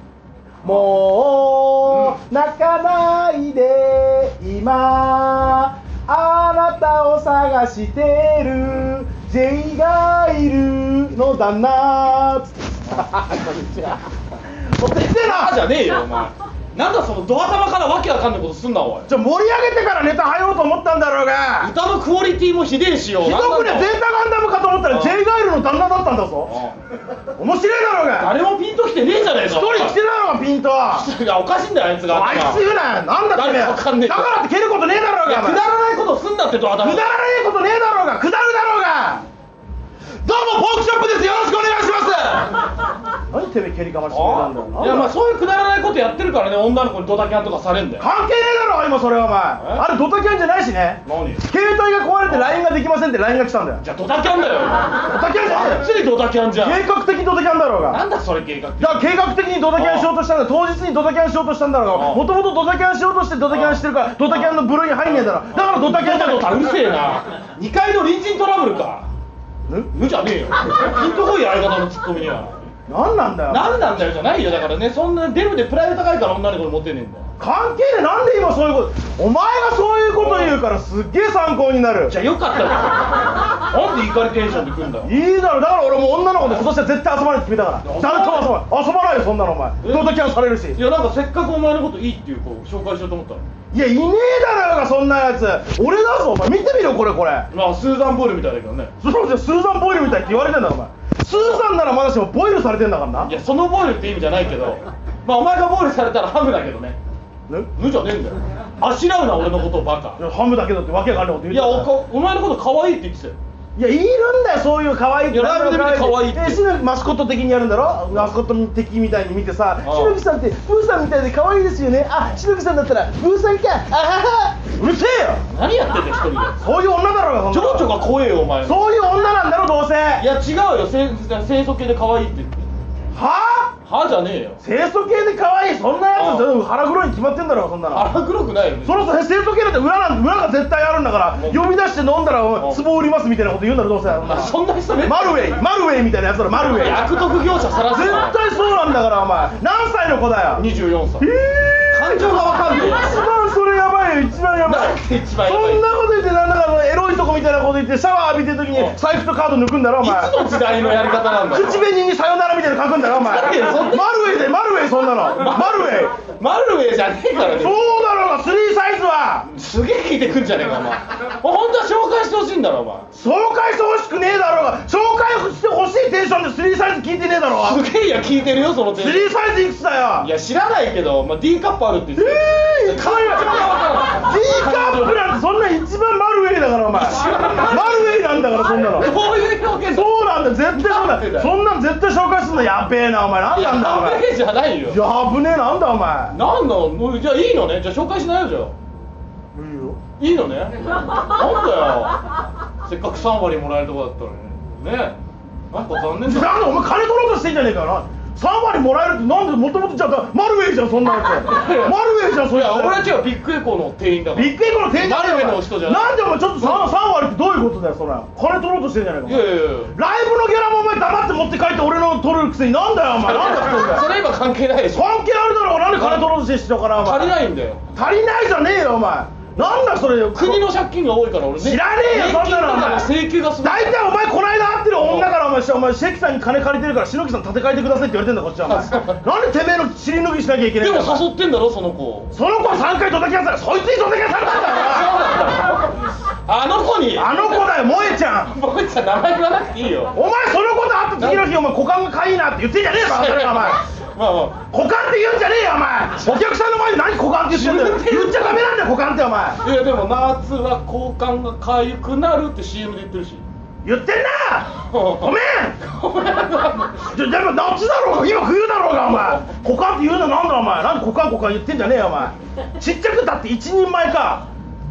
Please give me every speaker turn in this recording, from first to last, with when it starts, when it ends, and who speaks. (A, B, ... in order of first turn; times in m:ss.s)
0:00.6-0:14.0 A
0:01.9-0:02.2 B
0:14.7-0:15.6 A
0:14.8-0:19.1 B
0:19.1-0:21.7 A
0:21.6-0:23.9 B
0:23.2-0:26.5 A
0:24.9-0:25.2 B
0:26.4-0:26.8 B
0:27.4-0:28.3 A
0:28.2-0:30.0 B
0:29.4-0:31.1 A
0:30.9-0:32.6 B
0:32.1-0:35.6 A
0:33.3-0:34.4 B
0:35.2-0:37.1 B
0:36.8-0:39.2 A
0:40.2-0:42.6 A
0:43.3-0:45.1 A
0:44.1-0:48.1 B
0:48.0-0:53.8 A
0:51.0-0:51.4 B
0:53.8-0:56.8 B
0:55.0-0:55.9 A
0:56.5-0:58.0 A
0:57.9-0:59.1 B
0:58.8-1:06.6 A
0:59.7-1:00.1 B
1:01.9-1:02.2 B
1:03.5-1:09.1 B
1:09.9-1:12.6 B
1:12.9-1:13.8 A
1:13.5-1:17.2 B
1:17.4-1:22.1 A
1:20.1-1:20.6 B
1:22.1-1:25.1 B
1:25.0-1:30.8 A
1:27.8-1:28.6 B
1:29.8-1:30.2 B
1:30.7-1:33.4 B
1:33.7-1:37.5 A
1:37.5-1:38.9 B
1:39.0-1:43.3 A
1:41.3-1:41.6 B
1:43.2-1:47.0 B
1:47.8-1:50.2 B
1:50.2-1:51.9 A
1:51.5-1:53.4 B
1:53.8-2:05.4 A
1:55.3-1:56.6 B
1:59.8-2:00.2 B
2:05.5-2:06.7 B
2:06.6-2:07.9 A
2:07.5-2:08.8 B
2:08.6-2:10.2 A
2:10.2-2:12.7 B
2:13.1-2:13.7 A
2:13.8-2:14.6 B
2:14.6-2:18.1 A
2:16.1-2:16.5 B
2:17.9-2:19.0 B
2:18.8-2:27.2 A
2:21.3-2:21.6 B
2:24.2-2:25.6 B
2:26.7-2:28.4 B
2:27.9-2:30.6 A
2:30.6-2:31.3 B
2:31.2-2:40.3 A
2:31.9-2:33.1 B
2:34.6-2:35.8 B
2:38.7-2:39.0 B
2:40.0-2:41.8 B
2:41.5-2:46.1 A
2:43.1-2:44.1 B
2:45.3-2:47.8 B
2:47.4-2:49.5 A
2:49.5-2:53.1 B
2:53.1-2:57.8 A
2:57.5-2:59.3 B
2:58.9-3:00.3 A
3:00.2-3:05.2 B
3:02.2-3:09.1 A
3:06.9-3:10.1 B
3:09.9-3:14.2 A
3:10.7-3:11.5 B
3:13.5-3:15.0 B
3:14.9-3:16.4 A
3:16.3-3:18.7 B
3:19.5-3:20.0 A
3:20.2-3:22.2 B
3:22.8-3:25.2 B
3:25.7-3:26.6 B
3:26.2-3:33.0 A
3:31.4-3:37.0 B
3:34.3-3:44.1 A
3:39.2-3:39.9 B
3:43.2-3:45.2 B
3:44.9-3:47.4 A
3:46.0-3:46.3 B
3:47.0-3:47.8 B
3:47.9-3:50.6 A
3:50.3-3:54.0 B
3:51.6-4:01.2 A
3:55.0-3:55.3 B
3:58.7-3:59.2 B
4:00.8-4:02.3 B
4:02.3-4:05.2 A
4:04.4-4:07.8 B
4:07.2-4:08.6 A
4:08.5-4:10.1 B
4:10.1-4:13.8 A
4:11.2-4:11.5 B
4:13.0-4:14.6 B
4:14.7-4:19.6 A
4:17.5-4:18.6 B
4:19.6-4:23.4 B
4:23.8-4:25.8 A
4:24.9-4:27.1 B
4:27.1-4:34.4 A
4:29.1-4:29.4 B